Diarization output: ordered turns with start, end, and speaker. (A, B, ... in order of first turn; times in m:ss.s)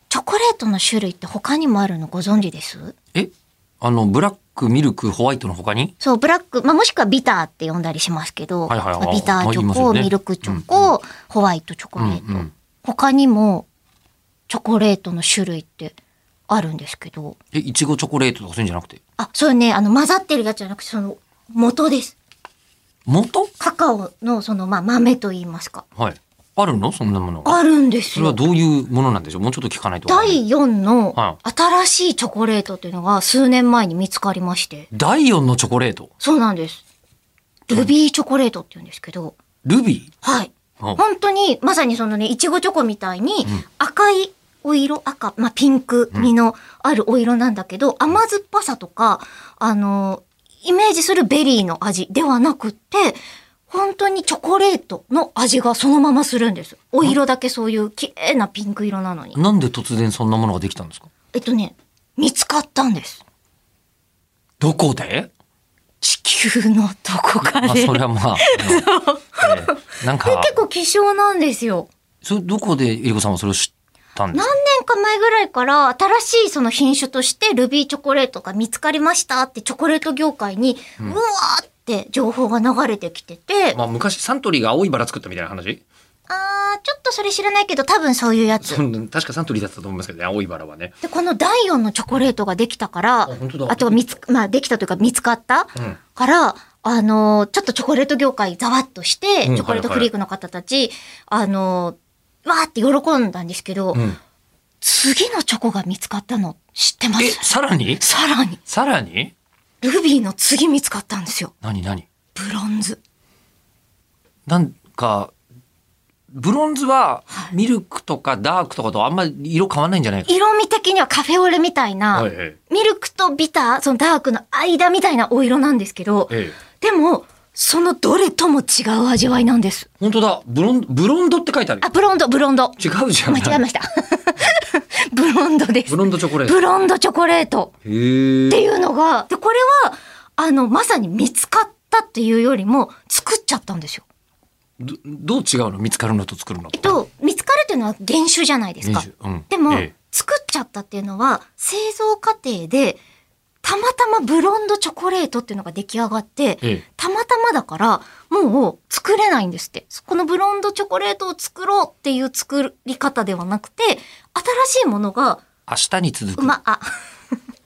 0:00.1-0:02.9 A
0:03.1-0:05.9 B
0:06.0-0:13.7 A
0:08.7-0:10.9 B
0:12.0-0:12.5 B
0:14.5-0:16.0 A
0:16.5-0:17.4 A
0:17.5-0:19.0 B
0:19.2-0:22.2 A
0:23.1-0:23.5 B
0:23.6-0:25.8 A
0:26.0-0:27.6 B
0:27.4-0:28.4 A
0:28.1-0:30.4 B
0:30.1-0:34.9 A
0:34.9-0:36.1 B
0:36.2-0:36.8 A
0:37.7-0:39.4 A
0:39.6-0:40.1 B
0:40.2-0:59.4 A
0:59.4-1:01.1 B
1:01.3-1:03.2 A
1:04.6-1:05.3 B
1:06.0-1:11.9 A
1:07.6-1:08.9 B
1:09.4-1:10.6 B
1:12.2-1:14.5 B
1:14.3-1:23.8 A
1:23.7-1:25.8 B
1:26.3-1:28.8 A
1:28.6-1:31.0 B
1:31.0-1:44.0 A
1:33.3-1:34.1 B
1:39.4-1:40.1 B
1:43.9-1:44.2 B
1:44.8-1:47.4 A
1:47.2-1:48.0 B
1:48.0-1:48.6 A
1:48.7-1:49.3 B
1:49.8-1:51.5 A
1:51.6-1:52.1 B
1:52.4-1:53.0 A
1:54.5-1:55.3 B
1:56.3-2:00.3 B
2:00.3-2:09.9 A
2:02.1-2:02.6 B
2:06.3-2:06.6 B
2:10.0-2:11.9 B
2:11.8-2:17.7 A
2:12.8-2:13.6 B
2:15.9-2:16.6 B
2:17.8-2:18.6 B
2:18.5-2:24.0 A
2:24.8-2:27.0 B
2:26.7-2:33.0 A
2:28.8-2:29.9 B
2:33.6-2:45.4 A
2:45.7-2:46.6 B
2:46.4-2:46.9 A